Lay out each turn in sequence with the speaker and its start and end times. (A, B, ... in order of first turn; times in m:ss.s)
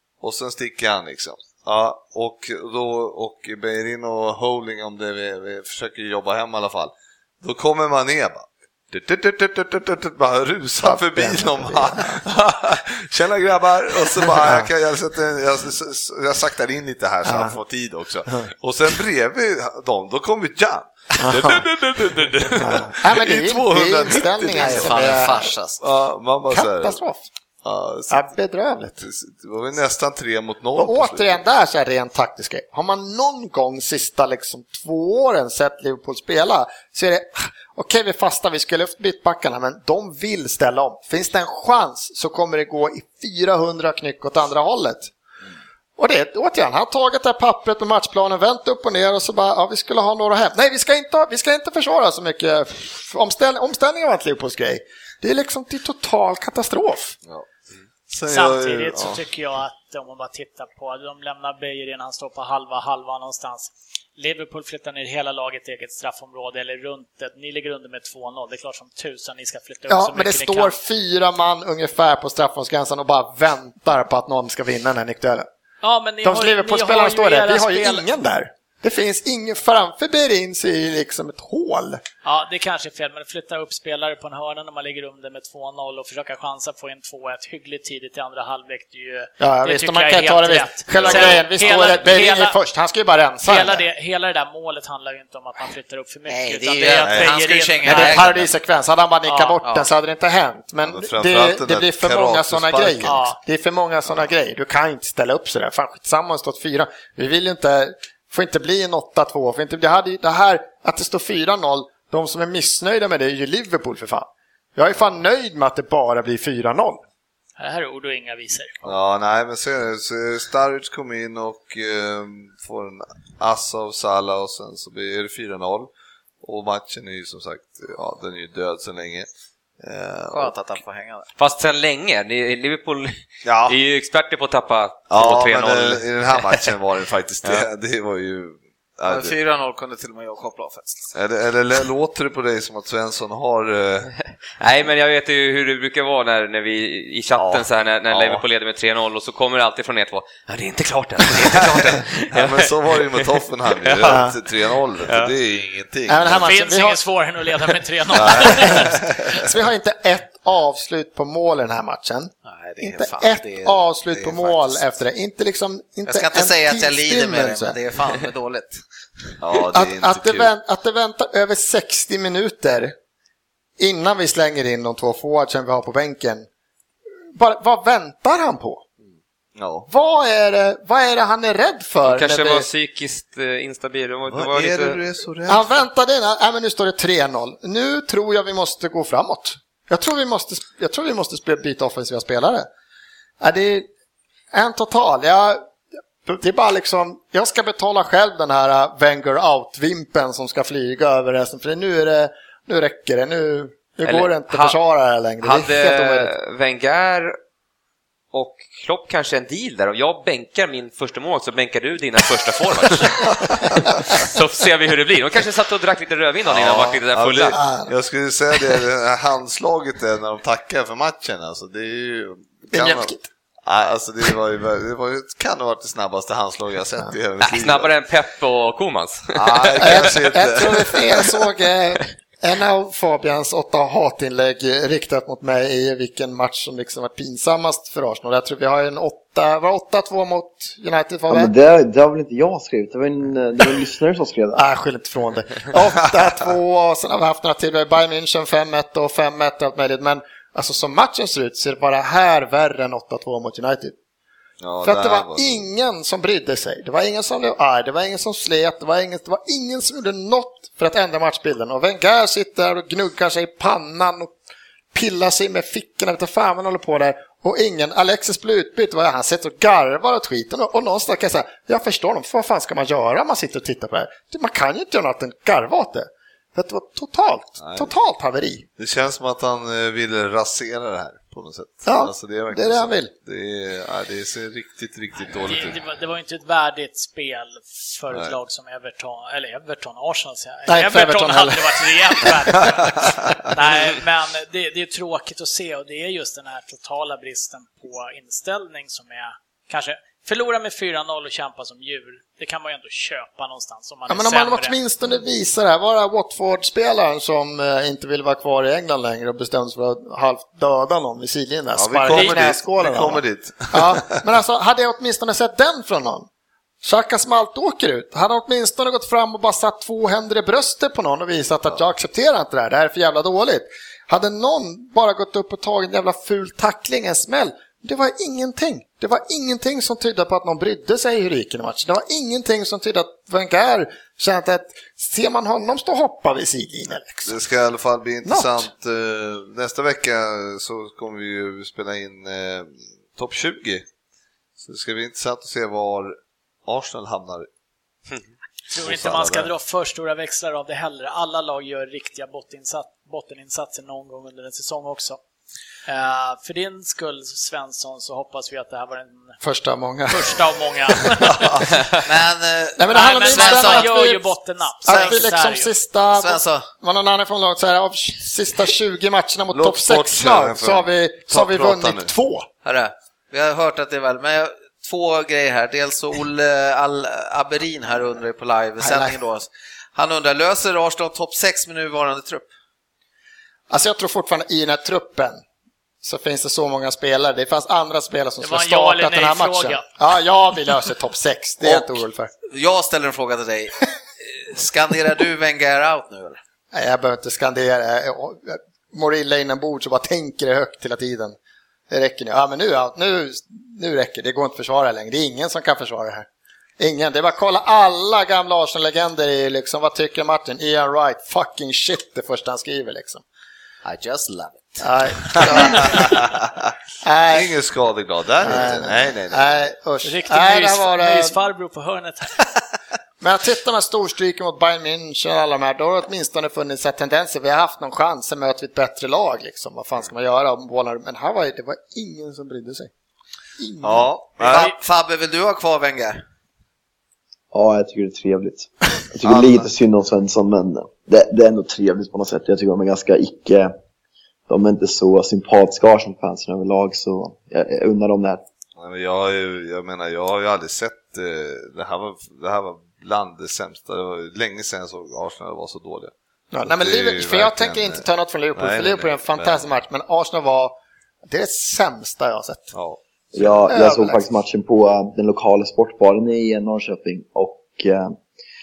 0:00.2-0:25.2 A
0:10.8-0:12.2 B
0:17.2-0:17.6 B
0:21.2-0:21.6 B
0:22.6-0:25.5 B
0:24.6-0:25.8 C
0:25.8-0:27.0 A
0:26.5-0:27.3 B
0:27.6-0:28.2 A
0:28.1-0:29.0 B
0:29.0-0:31.4 A
0:30.8-0:45.1 B
0:46.0-0:57.2 B
0:58.1-0:59.2 A
0:58.2-1:10.8 D
1:09.9-1:15.5 B
1:15.8-1:18.1 D
1:16.2-1:22.0 B
1:22.2-1:32.6 D
1:29.4-1:33.8 B
1:30.9-1:31.4 A
1:33.4-1:38.3 D
1:36.3-1:38.5 C
1:37.0-1:37.4 A
1:37.8-1:57.0 B
1:39.6-1:39.9 C
1:40.8-1:43.2 A
1:43.0-1:43.4 D
1:57.6-1:58.8 D
1:58.8-2:05.9 A
2:06.4-2:09.3 A
2:09.8-2:10.6 A
2:10.3-2:11.3 C
2:11.4-2:16.7 E
2:13.4-2:13.8 A
2:15.1-2:19.4 A
2:19.1-2:21.1 C
2:21.1-2:24.1 A
2:24.6-2:34.2 E
2:27.4-2:28.4 A
2:31.4-2:36.5 A
2:34.0-2:34.3 B
2:35.0-2:35.3 E
2:36.1-2:37.0 B
2:36.4-2:38.9 D
2:38.1-2:39.5 A
2:38.2-2:47.8 B
2:42.4-2:44.8 C
2:46.0-2:48.8 C
2:49.4-2:50.5 A
2:49.7-2:52.9 B
2:53.8-2:56.5 B
2:57.4-2:58.8 B
2:59.6-2:59.9 A
2:59.9-3:02.7 B
3:02.0-3:05.0 E
3:04.3-3:05.8 A
3:05.5-3:12.7 B
3:13.4-3:13.9 B
3:14.5-3:15.7 B
3:16.2-3:26.3 B
3:24.0-3:24.8 E
3:25.4-3:27.4 E
3:28.3-3:37.6 E
3:36.5-3:47.9 A
3:37.5-3:37.9 B
3:42.7-3:43.3 B
3:47.4-3:50.1 E
3:49.3-3:51.3 A
3:49.8-4:01.5 B
4:01.3-4:04.6 F
4:04.5-4:13.9 B
4:14.6-4:15.7 A
4:14.8-4:24.3 B
4:24.9-4:38.7 B
4:37.6-4:37.9 A
4:38.8-4:45.8 A
4:41.8-4:43.1 B
4:45.2-5:04.8 D
4:50.7-4:52.5 B
5:04.1-5:16.3 B
5:11.7-5:14.2 A
5:12.1-5:12.4 D
5:16.8-5:37.4 B
5:37.2-5:43.8 A
5:38.2-5:38.7 B
5:44.6-5:47.5 A
5:48.7-5:55.2 D
5:48.8-5:49.5 A
5:55.9-5:59.3 D
5:59.4-6:00.4 B
6:00.1-6:01.7 D
6:02.0-6:04.0 C
6:02.8-6:04.3 B
6:02.9-6:05.7 D
6:04.8-6:12.4 B
6:04.8-6:05.3 C
6:06.1-6:06.7 C
6:09.5-6:12.1 A
6:12.6-6:22.5 C
6:18.8-6:19.2 B
6:23.7-6:25.4 B
6:26.0-6:32.3 B
6:28.4-6:29.9 D
6:31.6-6:36.4 C
6:36.7-6:41.4 B
6:41.9-6:46.3 B
6:46.8-6:53.2 B
6:53.8-6:56.2 C
6:54.8-6:56.1 B
6:55.9-6:56.4 A
6:57.0-6:57.5 B
6:57.3-6:59.7 A
6:58.4-7:01.4 B
7:00.0-7:02.4 D
7:03.2-7:12.9 B
7:13.6-7:14.1 B
7:13.8-7:14.7 A
7:14.4-7:16.2 C
7:17.5-7:23.7 F
7:19.2-7:19.7 A
7:24.5-7:28.4 F
7:28.8-7:39.7 A
7:36.5-7:42.7 B
7:42.7-7:43.7 A
7:43.3-7:48.2 F
7:43.7-7:44.2 B